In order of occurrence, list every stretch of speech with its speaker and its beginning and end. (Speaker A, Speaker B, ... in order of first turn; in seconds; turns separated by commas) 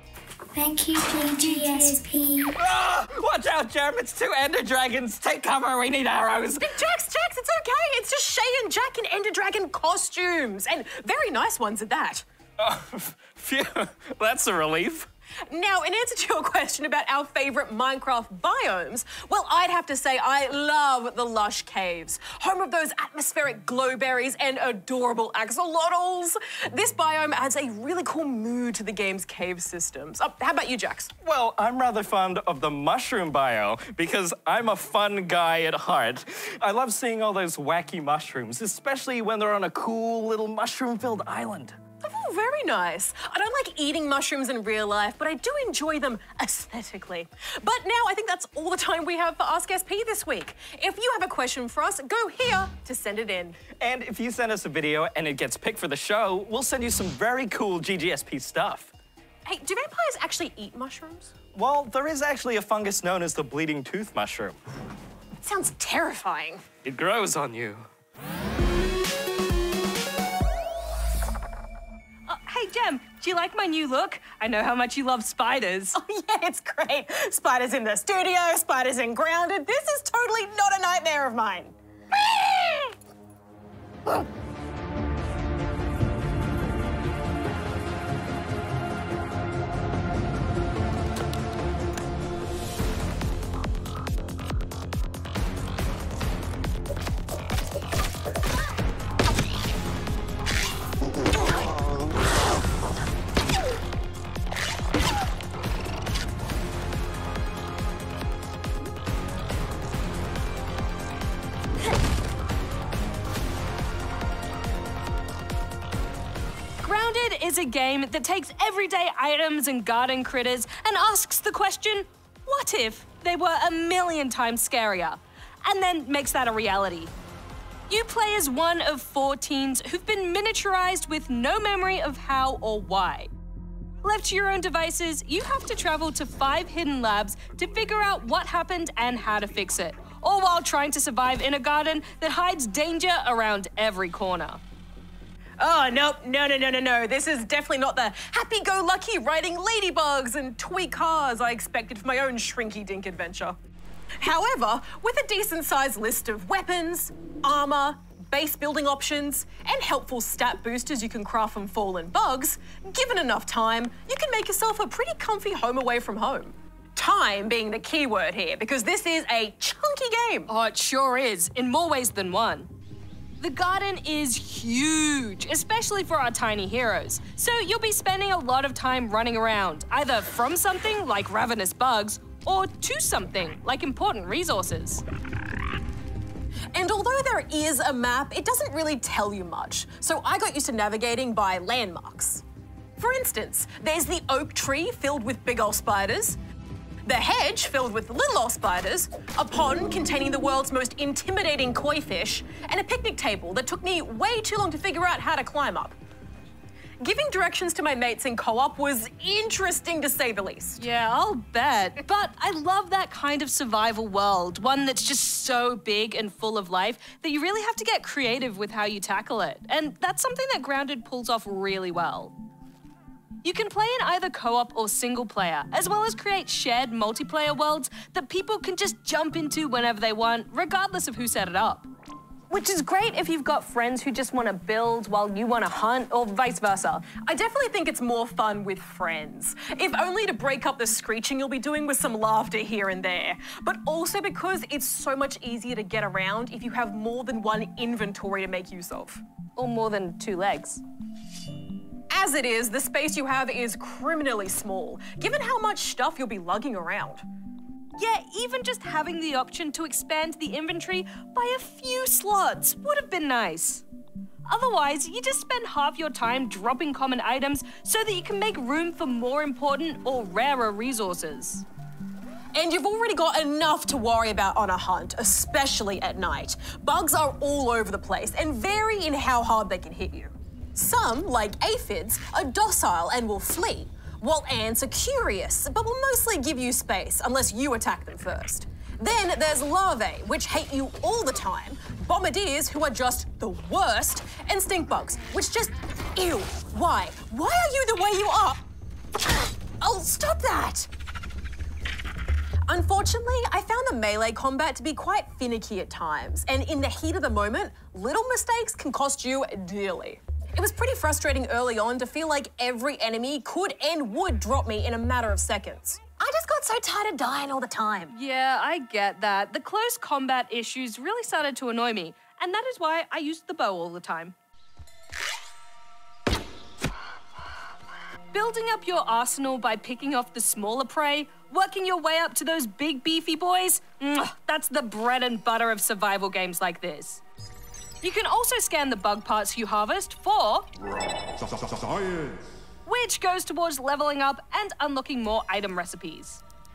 Speaker A: 0.5-2.5, Speaker B: 1.3-1.9, Speaker C: 2.6-6.8, Speaker B: 6.6-12.3, Speaker C: 12.6-15.1, Speaker B: 15.5-31.1, Speaker C: 31.2-41.8, Speaker B: 42.0-53.6, Speaker C: 53.8-58.9, Speaker B: 59.5-61.3, Speaker C: 61.5-64.6, Speaker B: 65.4-66.6, Speaker C: 66.8-67.9, Speaker D: 72.3-76.0, Speaker B: 76.0-81.8, Speaker B: 82.3-82.9, Speaker D: 116.8-127.1, Speaker D: 127.9-133.3, Speaker D: 134.0-144.6, Speaker B: 145.6-153.6, Speaker B: 154.2-170.5, Speaker D: 170.5-172.7, Speaker D: 173.4-185.1, Speaker B: 186.7-192.4, Speaker B: 193.0-196.4, Speaker B: 197.1-206.0, Speaker B: 207.0-210.8, Speaker D: 210.8-222.3, Speaker D: 223.4-231.9, Speaker D: 232.5-237.1, Speaker B: 237.1-249.2, Speaker D: 249.6-250.8, Speaker B: 252.1-257.2, Speaker D: 258.0-263.9, Speaker D: 264.5-271.6, Speaker B: 272.5-298.6, Speaker B: 299.8-300.9, Speaker B: 302.7-318.1, Speaker D: 318.1-324.4, Speaker D: 328.3-337.2, Speaker D: 338.0-340.7, Speaker D: 342.9-346.4